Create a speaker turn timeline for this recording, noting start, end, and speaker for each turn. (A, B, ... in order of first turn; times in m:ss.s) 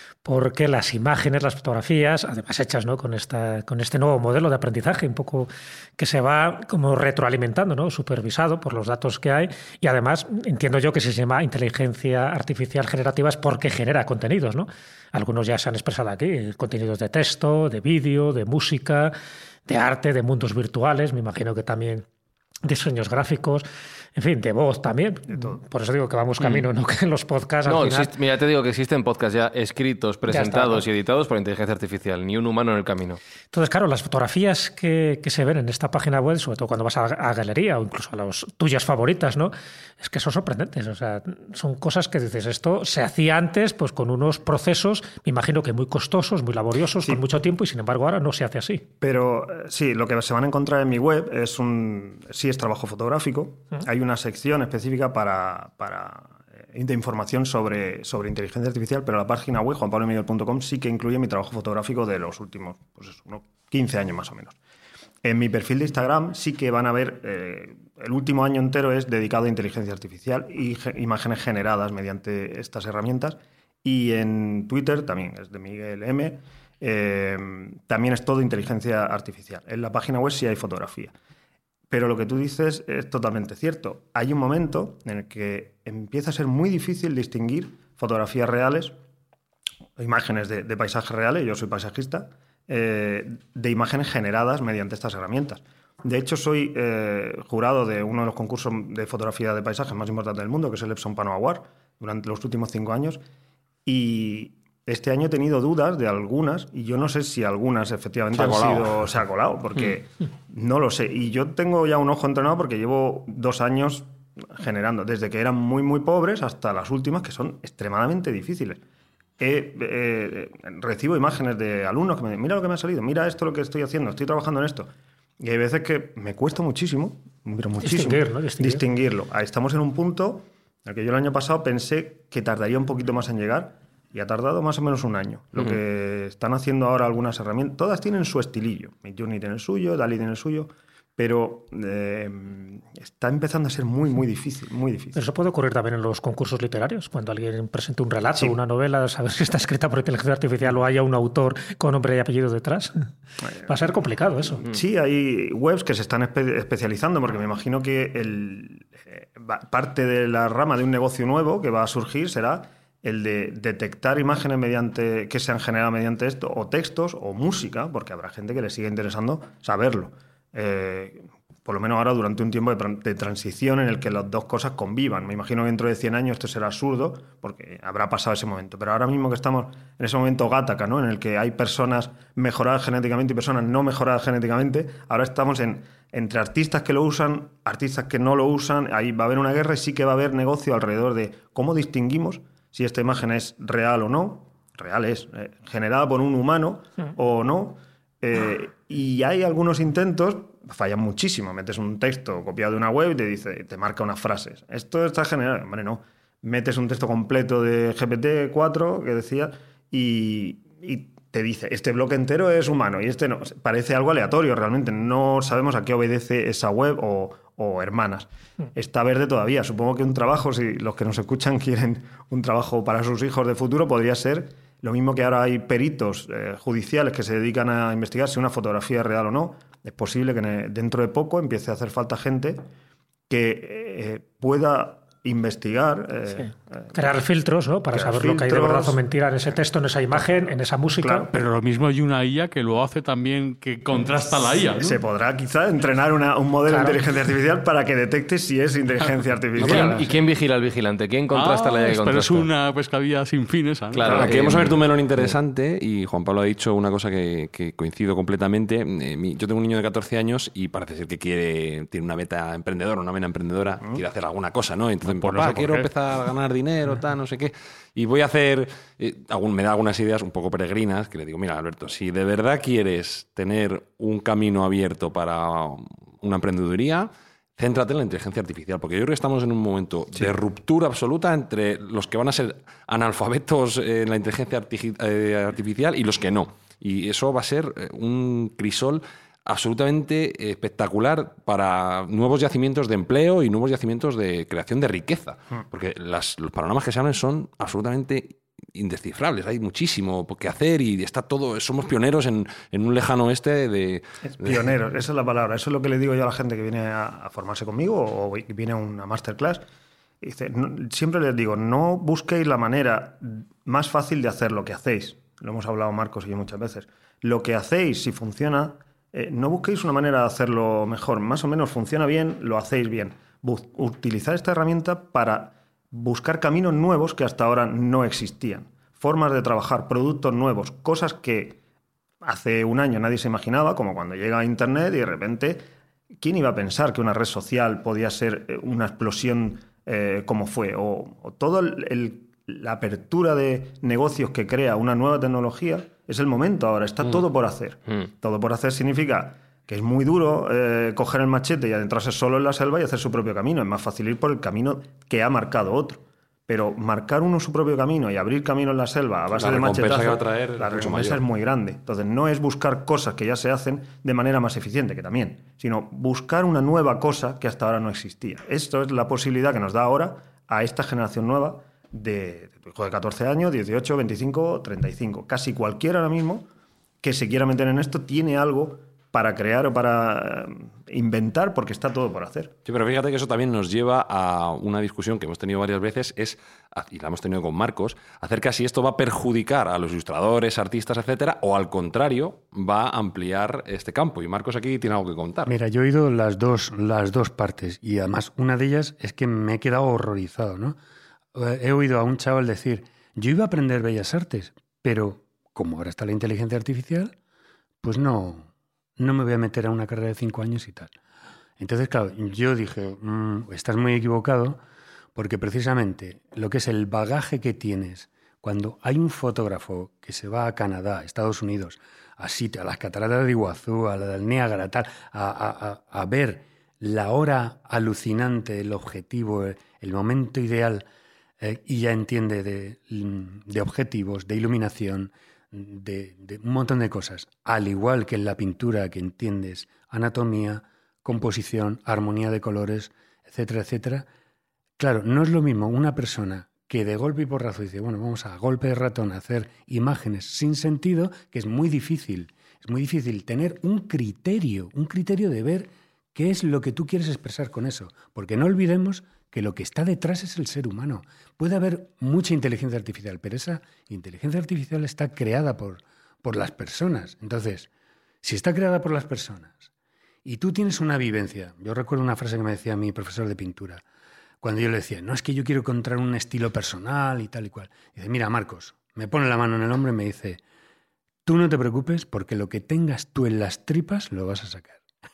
0:00.2-0:19.1 A
0:19.7-0:22.0 A
0:22.6-0:28.1 A
0:25.3-0:25.6 B
0:27.6-0:33.2 C
0:30.3-0:30.8 A
0:33.5-0:48.8 A
0:49.0-1:04.6 B
1:05.2-1:21.1 B
1:21.9-1:28.9 B
1:30.0-1:43.2 B
1:43.8-1:58.8 B
1:48.3-1:49.1 D
1:59.4-2:25.2 B
2:07.8-2:08.8 A
2:25.1-2:33.0 A
2:33.4-2:33.9 B
2:33.7-2:34.6 A
2:34.6-3:52.6 B
3:53.3-3:57.2 B
3:56.3-4:01.3 A
3:57.9-3:59.0 B
4:01.0-4:01.3 B
4:01.3-4:05.0 E
4:04.7-4:10.0 B
4:06.7-4:07.0 A
4:09.6-4:12.5 C
4:09.6-4:10.0 E
4:11.3-4:14.4 E
4:13.9-4:15.3 C
4:14.1-5:04.7 D
4:25.0-4:25.9 E
5:04.3-5:09.6 B
5:10.2-5:31.6 B
5:32.2-5:35.6 B
5:36.2-6:16.4 B
5:59.3-6:01.2 D
6:17.0-6:22.5 B
6:22.6-6:35.5 D
6:35.5-6:40.8 F
6:41.3-6:47.1 F
6:47.8-6:50.9 F
6:51.6-6:54.6 F
6:55.1-7:10.8 F
7:11.4-7:24.0 F
7:24.8-7:47.7 F
7:48.2-7:49.7 F
7:50.2-7:53.8 F
7:54.4-8:00.4 F
8:01.2-8:04.8 F